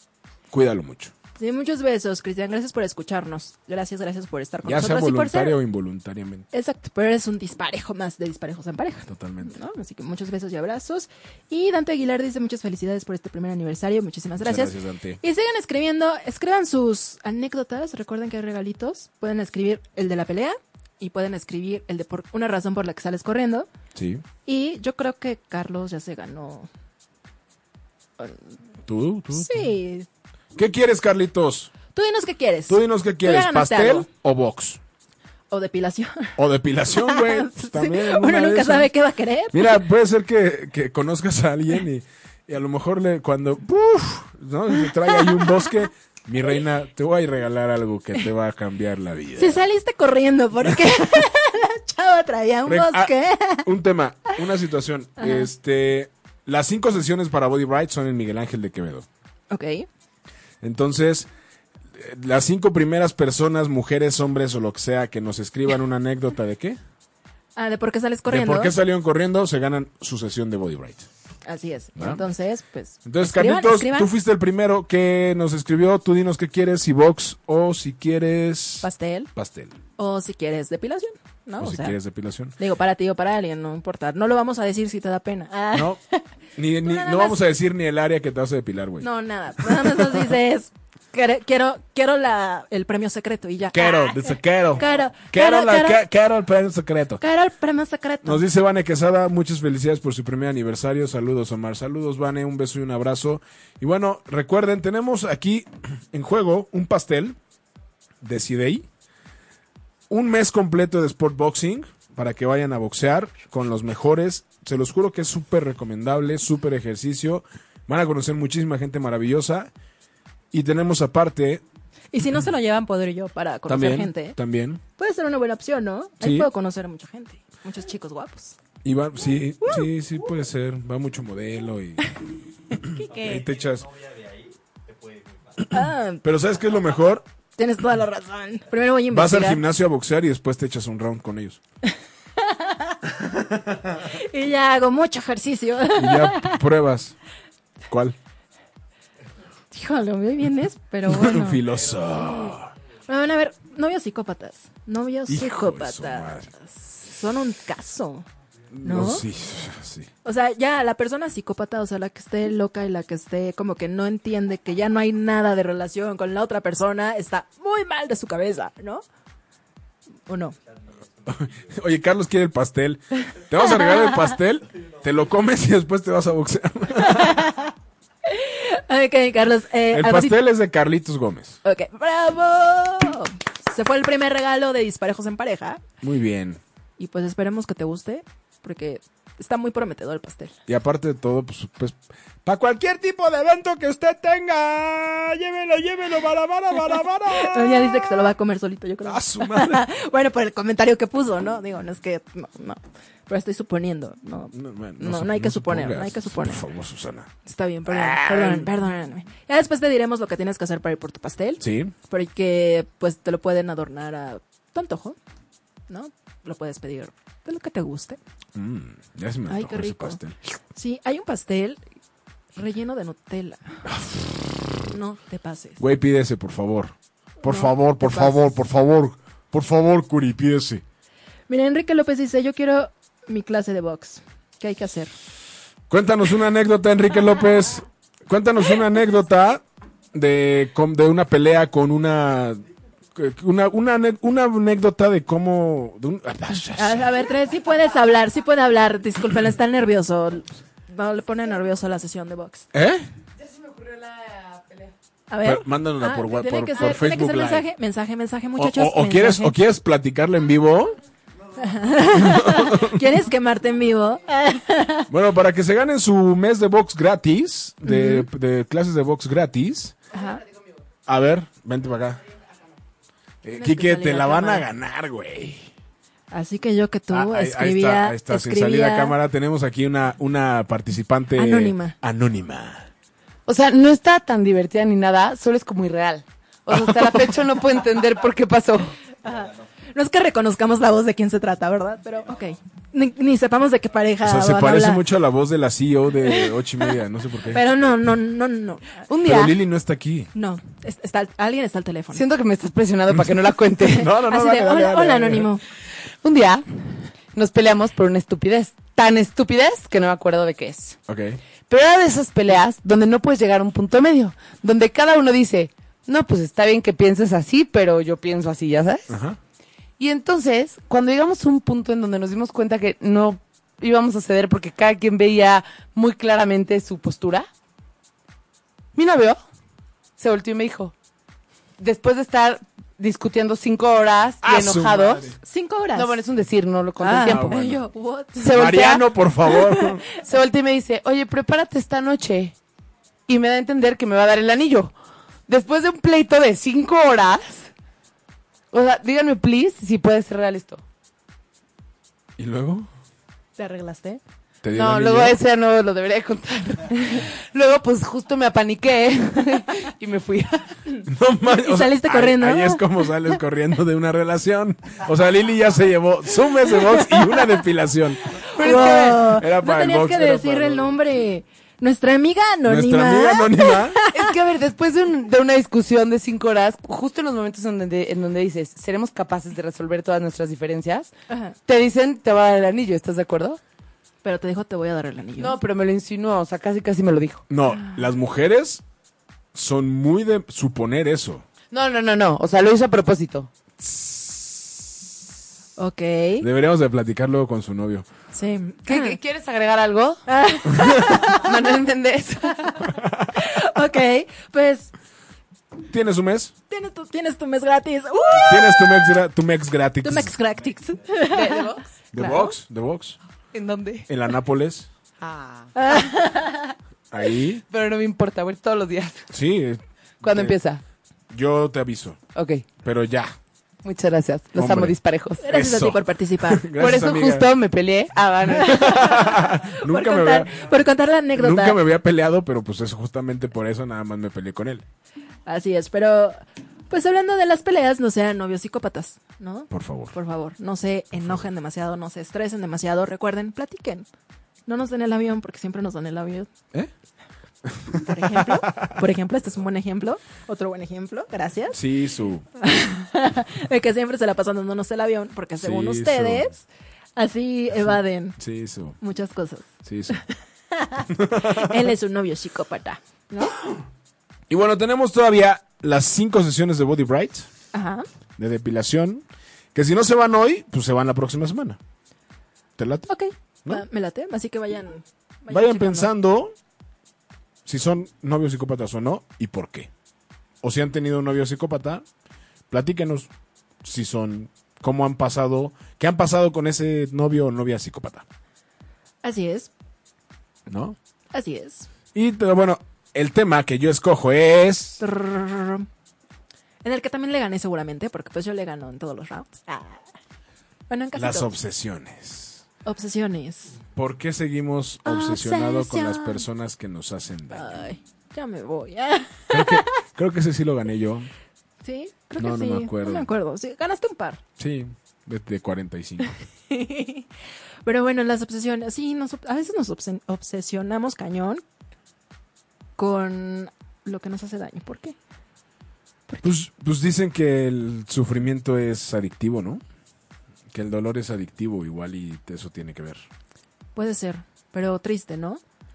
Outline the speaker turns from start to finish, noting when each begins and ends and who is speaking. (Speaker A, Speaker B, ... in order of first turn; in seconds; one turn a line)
Speaker A: 0.5-1.1
Speaker B: 1.4-5.6
Speaker A: 4.6-6.5
Speaker B: 6.5-23.7
Speaker A: 9.1-9.5
Speaker A: 14.4-15.2
Speaker A: 23.9-24.2
Speaker B: 24.4-26.7
Speaker B: 28.2-28.5
Speaker A: 28.9-29.7
Speaker B: 29.3-30.1
Speaker A: 30.6-31.7
Speaker B: 31.9-34.1
Speaker A: 32.7-34.8
Speaker B: 35.5-36.4
Speaker A: 36.4-38.9
Speaker B: 36.9-39.8
Speaker A: 39.5-49.6
Speaker B: 45.2-45.7
Speaker B: 49.4-53.7
Speaker A: 52.6-59.1
Speaker B: 55.2-55.5
Speaker B: 59.5-59.9
Speaker A: 60.6-61.3
Speaker A: 61.9-66.8
Speaker B: 67.5-68.7
Speaker A: 68.3-71.1
Speaker B: 71.5-74.1
Speaker A: 73.0-79.8
Speaker B: 78.8-79.3
Speaker B: 80.0-82.0
Speaker A: 81.6-82.5
Speaker B: 82.6-86.2
Speaker A: 85.7-86.0
Speaker A: 86.5-90.3
Speaker B: 86.8-87.4
Speaker B: 89.0-96.0
Speaker A: 93.7-97.2
Speaker B: 97.2-98.4
Speaker A: 98.2-107.4
Speaker A: 108.2-108.9
Speaker A: 110.1-119.7
Speaker A: 120.5-121.6
Speaker B: 122.1-124.4
Speaker A: 123.7-124.8
Speaker B: 125.0-128.6
Speaker A: 126.2-126.5
Speaker A: 128.8-132.1
Speaker B: 132.8-133.4
Speaker A: 133.0-133.9
Speaker B: 135.7-136.2
Speaker A: 136.2-137.2
Speaker B: 137.6-139.6
Speaker A: 139.1-141.6
Speaker B: 142.4-143.0
Speaker B: 144.0-146.6
Speaker A: 145.9-147.1
Speaker A: 147.9-148.2
Speaker B: 149.7-151.6
Speaker A: 151.1-152.7
Speaker B: 152.2-152.5
Speaker B: 153.1-158.2
Speaker A: 155.3-156.5
Speaker A: 158.7-160.1
Speaker B: 158.8-159.2
Speaker B: 160.2-169.0
Speaker B: 170.3-170.6
Speaker A: 171.2-177.4
Speaker B: 177.0-177.7
Speaker B: 178.2-180.4
Speaker A: 179.9-181.6
Speaker B: 181.6-185.8
Speaker A: 186.0-186.6
Speaker B: 187.0-190.5
Speaker A: 190.7-198.3
Speaker B: 197.3-206.6
Speaker A: 199.0-199.9
Speaker A: 204.5-207.3
Speaker B: 207.4-215.2
Speaker A: 207.8-208.7
Speaker A: 211.6-211.9
Speaker B: 215.9-218.2
Speaker A: 218.5-220.4
Speaker B: 219.5-220.2
Speaker B: 220.7-221.8
Speaker B: 222.5-223.8
Speaker A: 223.8-224.8
Speaker B: 224.9-225.8
Speaker A: 225.8-230.8
Speaker B: 227.4-228.4
Speaker B: 231.5-235.1
Speaker A: 235.9-239.6
Speaker A: 240.1-247.1
Speaker B: 246.8-252.7
Speaker A: 252.7-253.1
Speaker C: 253.7-254.9
Speaker B: 255.3-259.5
Speaker A: 255.4-257.7
Speaker A: 258.6-261.0
Speaker B: 261.6-265.1
Speaker A: 262.2-263.0
Speaker A: 265.1-269.9
Speaker B: 267.8-268.3
Speaker B: 270.1-270.4
Speaker A: 271.1-272.2
Speaker A: 273.4-275.7
Speaker B: 273.6-274.6
Speaker B: 276.3-279.1
Speaker A: 277.1-282.9
Speaker B: 281.4-282.0
Speaker C: 283.5-288.9
Speaker A: 286.7-287.1
Speaker B: 289.2-295.0
Speaker A: 294.2-297.6
Speaker B: 296.2-296.9
Speaker B: 297.5-299.1
Speaker C: 299.1-299.6
Speaker A: 299.2-300.3
Speaker B: 300.3-302.2
Speaker C: 302.1-304.1
Speaker A: 303.9-305.5
Speaker B: 304.0-305.6
Speaker C: 306.2-306.6
Speaker C: 307.3-311.0
Speaker A: 311.1-311.4
Speaker C: 311.7-319.1
Speaker A: 319.1-319.4
Speaker C: 320.0-327.5
Speaker C: 328.9-329.4
Speaker C: 330.2-330.9
Speaker C: 331.8-335.2
Speaker A: 334.4-335.4
Speaker B: 335.4-336.2
Speaker C: 335.9-337.7
Speaker B: 337.0-338.7
Speaker A: 337.2-337.8
Speaker C: 338.4-339.0
Speaker A: 338.5-340.0
Speaker B: 339.5-339.9
Speaker C: 340.1-342.5
Speaker C: 343.3-344.9
Speaker C: 345.5-347.7
Speaker C: 348.7-350.8
Speaker A: 352.4-352.9
Speaker B: 353.6-354.2
Speaker A: 354.6-355.4
Speaker C: 354.7-360.7
Speaker B: 360.9-363.0
Speaker A: 361.1-370.9
Speaker B: 366.8-367.2
Speaker B: 368.5-374.2
Speaker C: 368.5-369.3
Speaker A: 372.6-374.0
Speaker C: 374.1-381.1
Speaker B: 381.3-381.6
Speaker C: 381.7-383.6
Speaker B: 384.2-385.6
Speaker C: 385.4-387.4
Speaker A: 387.5-388.8
Speaker A: 389.5-391.4
Speaker C: 391.7-393.5
Speaker A: 393.8-395.0
Speaker B: 395.8-396.5
Speaker A: 396.4-398.1
Speaker B: 398.3-399.2
Speaker C: 398.9-400.2
Speaker B: 400.3-401.5
Speaker C: 401.3-402.6
Speaker A: 403.0-403.3
Speaker B: 403.3-404.9
Speaker A: 405.8-406.5
Speaker B: 406.7-409.2
Speaker A: 408.3-410.3
Speaker B: 410.0-412.5
Speaker C: 411.2-412.4
Speaker A: 412.1-413.2
Speaker C: 413.5-414.1
Speaker A: 414.1-414.9
Speaker C: 415.2-416.0
Speaker B: 415.7-416.8
Speaker A: 417.1-417.6
Speaker C: 417.7-419.2
Speaker A: 419.3-420.5
Speaker C: 420.2-420.8
Speaker A: 421.3-422.2
Speaker C: 422.3-422.6
Speaker A: 422.8-423.4
Speaker C: 423.8-425.4
Speaker A: 424.5-427.5
Speaker B: 425.4-426.7
Speaker C: 426.8-428.9
Speaker A: 428.5-430.7
Speaker B: 428.6-431.8
Speaker A: 431.3-434.8
Speaker B: 435.4-444.1
Speaker A: 439.7-440.1
Speaker B: 444.7-446.5
Speaker A: 447.6-448.9
Speaker B: 448.0-451.8
Speaker A: 451.7-452.4
Speaker B: 452.6-456.6
Speaker A: 455.6-456.5
Speaker B: 457.1-458.4
Speaker A: 458.4-459.0
Speaker B: 459.0-463.6
Speaker A: 459.8-460.2
Speaker A: 461.1-461.9
Speaker A: 464.5-467.5
Speaker B: 467.7-468.1
Speaker A: 468.4-471.8
Speaker A: 472.8-473.1
Speaker B: 473.1-476.1
Speaker A: 475.5-476.5
Speaker A: 477.6-479.9
Speaker A: 480.6-482.0
Speaker A: 482.7-483.3
Speaker A: 483.8-488.2
Speaker B: 489.2-489.7
Speaker A: 490.7-491.0
Speaker B: 491.3-491.9
Speaker A: 492.1-495.0
Speaker B: 495.0-495.9
Speaker B: 496.8-500.0
Speaker B: 500.9-501.5
Speaker A: 501.1-502.6
Speaker B: 502.8-503.8
Speaker A: 503.9-507.8
Speaker B: 505.0-506.4
Speaker B: 507.5-509.9
Speaker A: 509.5-511.3
Speaker B: 511.8-514.4
Speaker A: 512.4-513.3
Speaker A: 514.6-516.3
Speaker B: 516.7-517.2
Speaker B: 517.8-521.6
Speaker B: 523.0-525.1
Speaker A: 526.4-529.8
Speaker A: 530.7-533.2
Speaker B: 534.0-535.6